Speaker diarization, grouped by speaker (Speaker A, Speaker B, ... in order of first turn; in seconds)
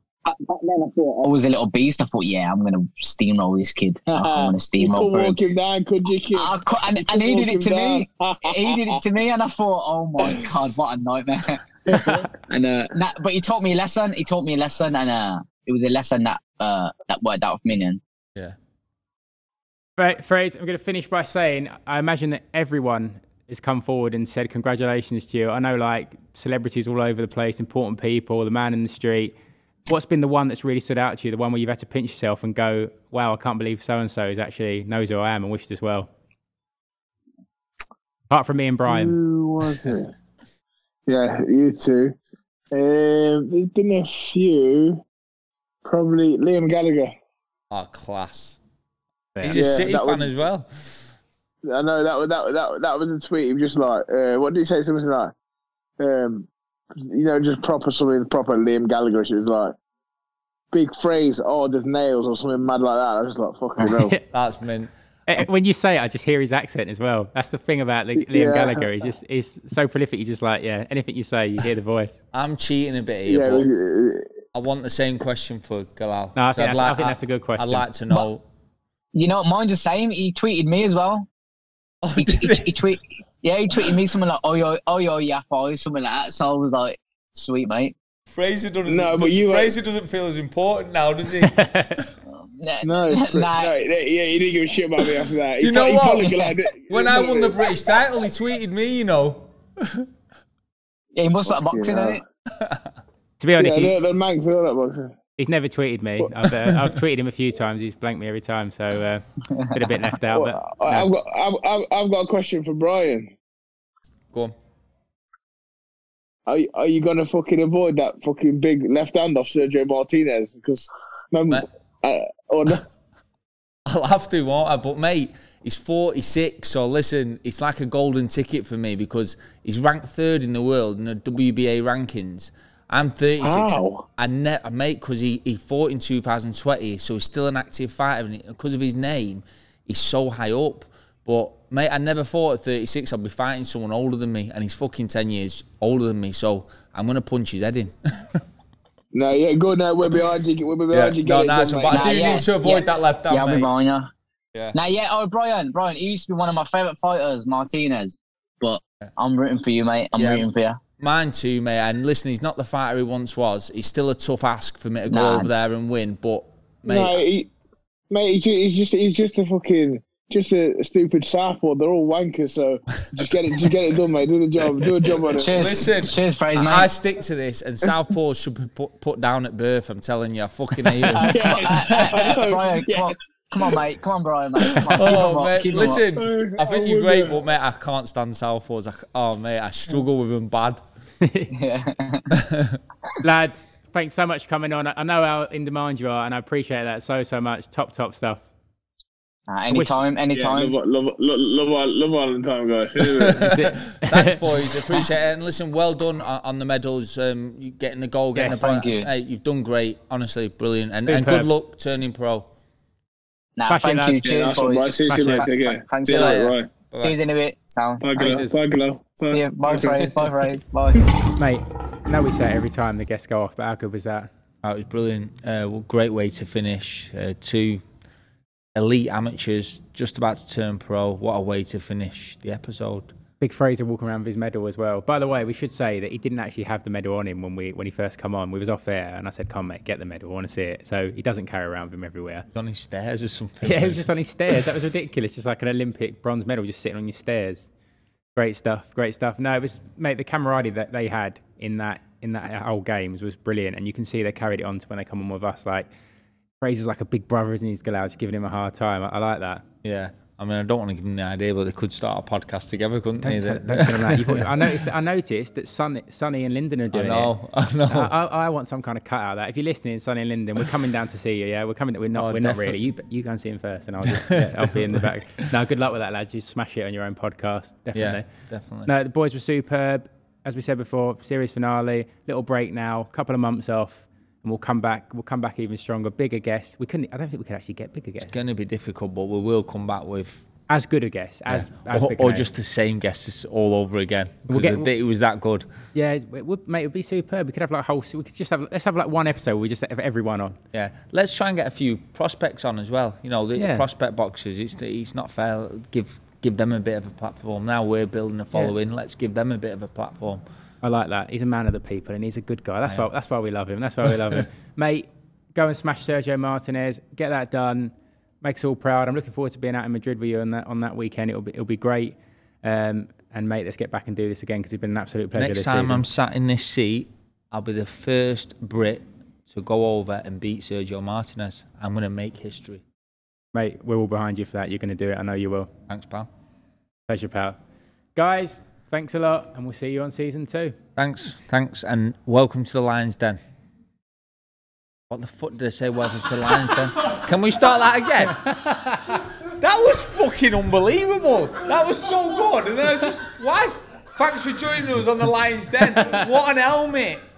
Speaker A: 0.2-5.4, 6.3-18.0, 79.1-81.3, 82.2-88.0, 92.3-93.8, 95.9-96.5, 101.1-102.2, 151.9-154.1, 154.7-160.8, 165.1-165.5, 175.3-176.9, 181.1-186.0, 191.5-192.3, 199.5-200.8, 208.4-209.1, 213.6-218.1, 219.2-221.0
Speaker B: 4.1-9.0, 11.9-12.2, 38.9-40.1, 41.1-42.1, 42.7-45.0, 45.8-47.1, 49.5-50.3, 51.6-55.3, 56.0-59.7, 60.7-64.1, 68.2-68.9, 73.2-74.3, 88.9-89.7, 92.8-97.7, 101.5-102.2, 103.6-105.2, 110.3-113.3, 116.5-122.8, 133.4-134.0, 149.1-152.2, 166.8-167.5, 168.1-175.7, 181.2-183.8, 186.2-187.4, 200.3-203.5, 214.2-216.7, 218.0-220.2
Speaker C: 11.9-12.2, 20.0-29.3, 29.9-36.1, 38.3-39.1, 49.4-49.6, 63.8-64.2, 65.3-72.2, 76.3-77.9, 91.4-92.0, 103.4-103.9, 105.4-111.1, 191.2-191.5, 193.2-198.5, 199.7-200.0, 203.4-204.7, 208.3-208.6, 211.1-211.5, 213.7-214.3, 215.1-215.5, 218.2-218.5, 221.4-224.3, 233.4-242.4, 243.6-247.7, 248.3-255.9, 256.6-259.6, 263.2-267.3, 267.9-278.3, 278.9-288.3, 290.7-292.5, 294.5-294.9, 295.9-300.6, 303.6-303.9, 310.8-326.0, 333.5-335.7, 337.1-337.6, 338.1-340.8, 348.6-349.2
Speaker D: 47.7-48.6, 49.4-51.1, 64.3-65.4, 72.3-73.7, 74.5-78.4, 82.0-82.8, 88.3-92.1, 95.6-100.1, 102.5-102.9, 123.9-148.4, 150.9-153.7, 160.2-160.5, 161.0-167.2, 175.1-182.3, 184.9-190.8, 192.3-192.8, 203.2-212.5, 216.1-217.2, 224.6-227.8, 228.7-233.1, 242.5-244.0, 259.8-264.7, 266.9-268.1, 272.1-272.8, 274.1-275.0, 277.9-278.9, 288.2-290.4, 291.5-295.6, 300.7-310.4, 325.4-332.8, 335.9-336.3, 341.0-343.4, 345.1-348.5, 349.6-357.2